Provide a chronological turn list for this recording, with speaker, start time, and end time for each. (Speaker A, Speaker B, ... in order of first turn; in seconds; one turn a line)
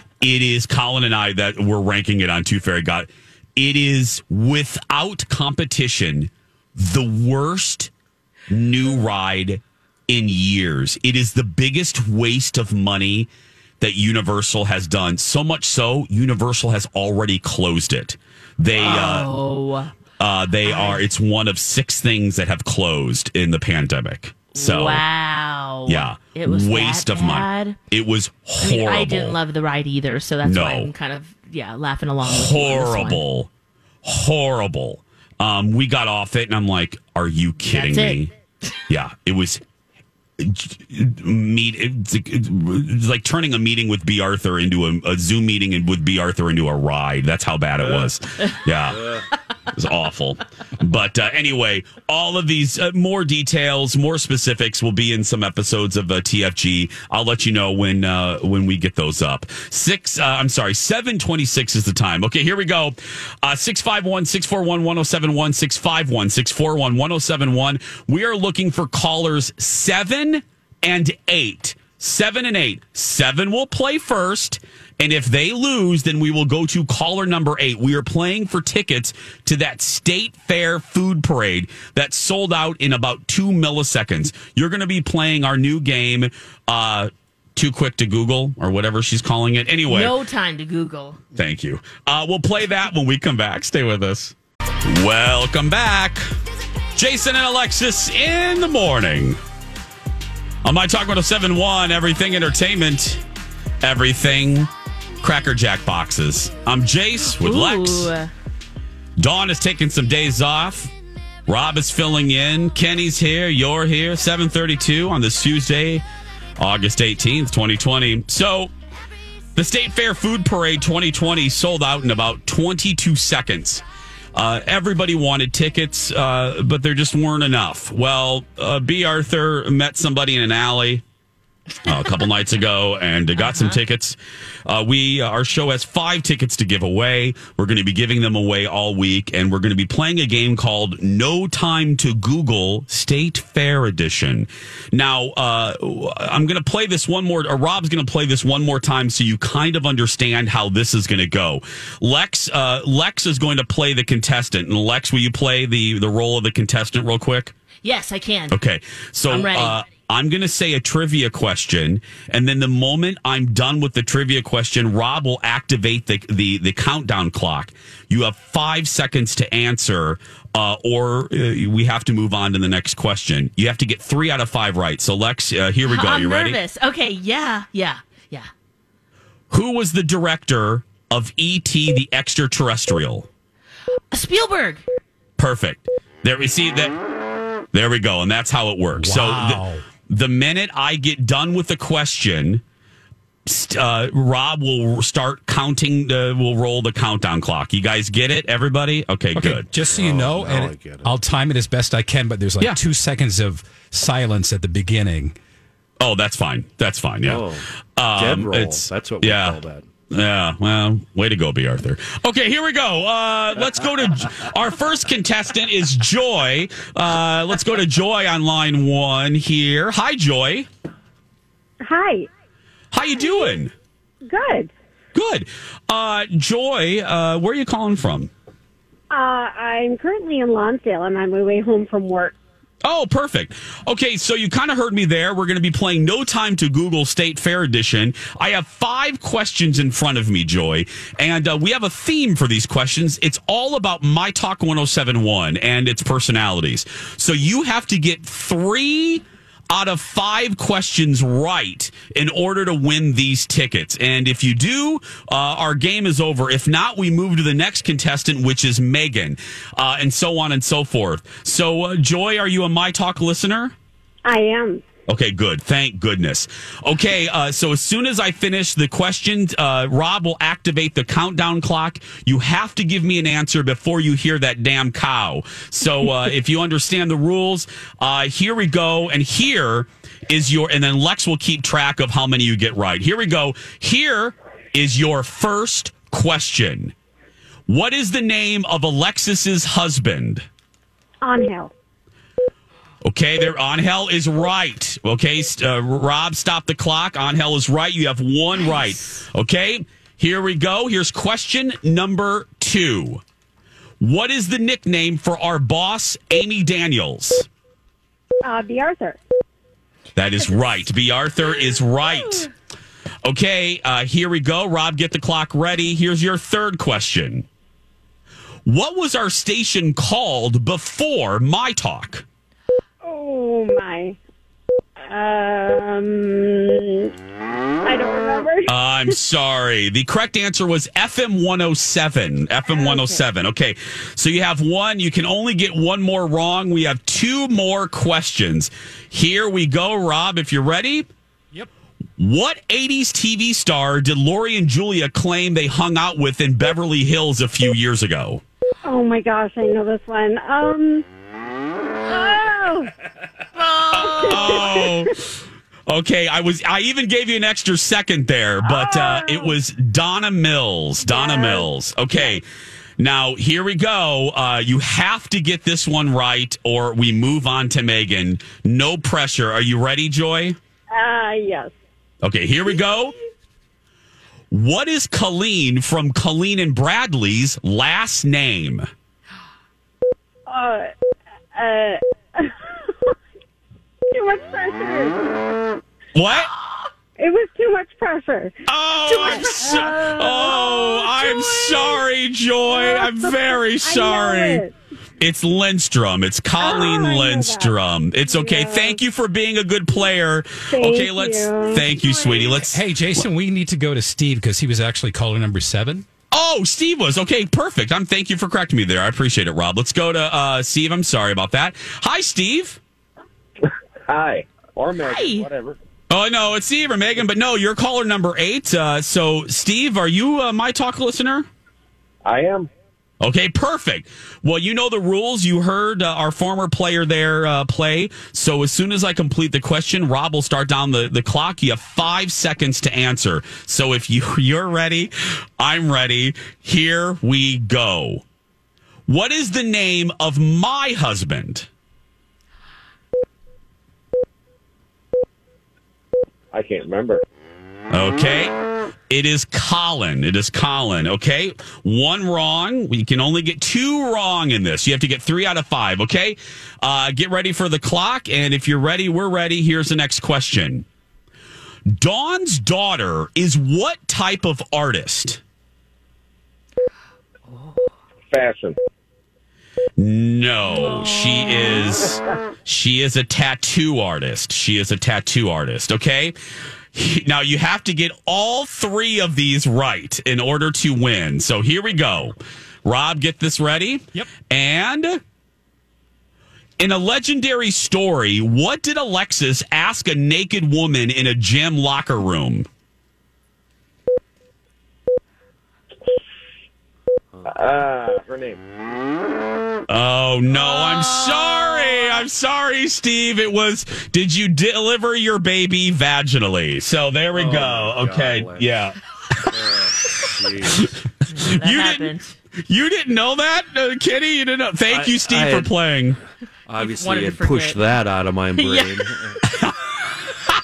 Speaker A: 0.2-7.9
Speaker A: 8.5-13.3
Speaker A: 13.8-19.3
Speaker B: 18.8-19.9
Speaker A: 20.2-25.0
Speaker B: 20.6-21.1
Speaker B: 24.5-27.8
Speaker A: 25.9-29.4
Speaker B: 28.6-33.2
Speaker A: 30.4-30.9
Speaker A: 32.2-33.5
Speaker A: 34.0-38.3
Speaker B: 37.6-38.3
Speaker A: 38.9-39.6
Speaker A: 40.4-49.2
Speaker A: 49.7-90.1
Speaker B: 89.9-91.2
Speaker A: 91.3-96.2
Speaker A: 97.0-99.4
Speaker A: 100.6-103.2
Speaker A: 103.8-104.7
Speaker A: 105.2-108.1
Speaker B: 107.2-108.3
Speaker A: 109.2-110.9
Speaker A: 111.5-116.0
Speaker A: 116.6-118.7
Speaker A: 119.5-123.8
Speaker A: 124.3-131.0
Speaker A: 131.8-157.5
Speaker B: 133.3-133.8
Speaker B: 157.8-158.6
Speaker A: 158.5-176.6
Speaker B: 159.3-159.8
Speaker B: 175.9-178.5
Speaker A: 179.5-183.3
Speaker B: 184.1-184.8
Speaker A: 185.4-186.9
Speaker A: 187.7-192.6
Speaker C: 188.9-189.8
Speaker A: 193.4-199.7
Speaker C: 199.3-205.3
Speaker D: 199.8-201.1
Speaker A: 206.0-209.6
Speaker D: 207.2-209.9
Speaker A: 210.1-220.7
Speaker E: 221.8-222.3
Speaker A: 222.9-223.7
Speaker E: 224.2-224.7
Speaker A: 225.1-228.3
Speaker E: 229.1-232.3
Speaker A: 232.8-263.7
Speaker E: 264.2-264.8
Speaker A: 265.1-286.9
Speaker A: 287.7-290.4
Speaker E: 291.2-291.7
Speaker A: 293.0-303.2
Speaker B: 298.5-299.2
Speaker A: 304.0-307.5
Speaker E: 308.4-309.2
Speaker A: 310.1-312.5
Speaker A: 313.2-317.4
Speaker A: 318.6-322.2
Speaker E: 323.0-324.1
Speaker E: 325.1-327.1
Speaker E: 327.8-328.7
Speaker A: 328.7-341.1
Speaker E: 332.7-333.2
Speaker A: 342.2-348.4
Speaker E: 348.8-351.0
Speaker E: 352.0-352.9
Speaker B: 353.6-354.7
Speaker A: 353.9-355.4
Speaker E: 353.9-355.1
Speaker A: 355.9-362.4
Speaker E: 358.7-359.4
Speaker E: 361.1-361.7
Speaker A: 363.0-370.6
Speaker E: 370.9-371.8
Speaker A: 372.2-373.1
Speaker A: 374.5-378.9
Speaker E: 380.5-380.9
Speaker E: 381.5-383.1
Speaker E: 384.1-385.5
Speaker A: 386.1-386.5
Speaker E: 387.2-388.6
Speaker A: 388.6-394.6
Speaker E: 389.1-392.0
Speaker E: 392.7-394.7
Speaker A: 395.2-403.3
Speaker E: 396.6-399.0
Speaker E: 400.7-402.6
Speaker C: 402.6-406.1
Speaker A: 406.3-412.8
Speaker F: 414.1-415.8
Speaker B: 415.1-415.5
Speaker A: 416.1-421.5
Speaker F: 422.2-422.7
Speaker A: 423.2-438.2
Speaker A: 439.1-441.7
Speaker F: 446.5-447.2
Speaker A: 447.9-448.6
Speaker A: 449.1-460.9
Speaker A: 461.9-465.4
Speaker F: 468.3-468.8
Speaker A: 470.0-476.4
Speaker B: 470.7-471.9
Speaker A: 476.9-485.2
Speaker A: 486.8-492.7
Speaker F: 497.4-498.6
Speaker A: 499.9-509.5
Speaker B: 500.5-502.2
Speaker D: 507.3-508.7
Speaker D: 509.5-510.9
Speaker A: 510.0-512.1
Speaker B: 511.3-512.3
Speaker A: 512.6-516.2
Speaker D: 514.9-515.7
Speaker D: 516.7-519.4
Speaker B: 516.8-517.9
Speaker B: 518.5-519.0
Speaker A: 519.5-520.0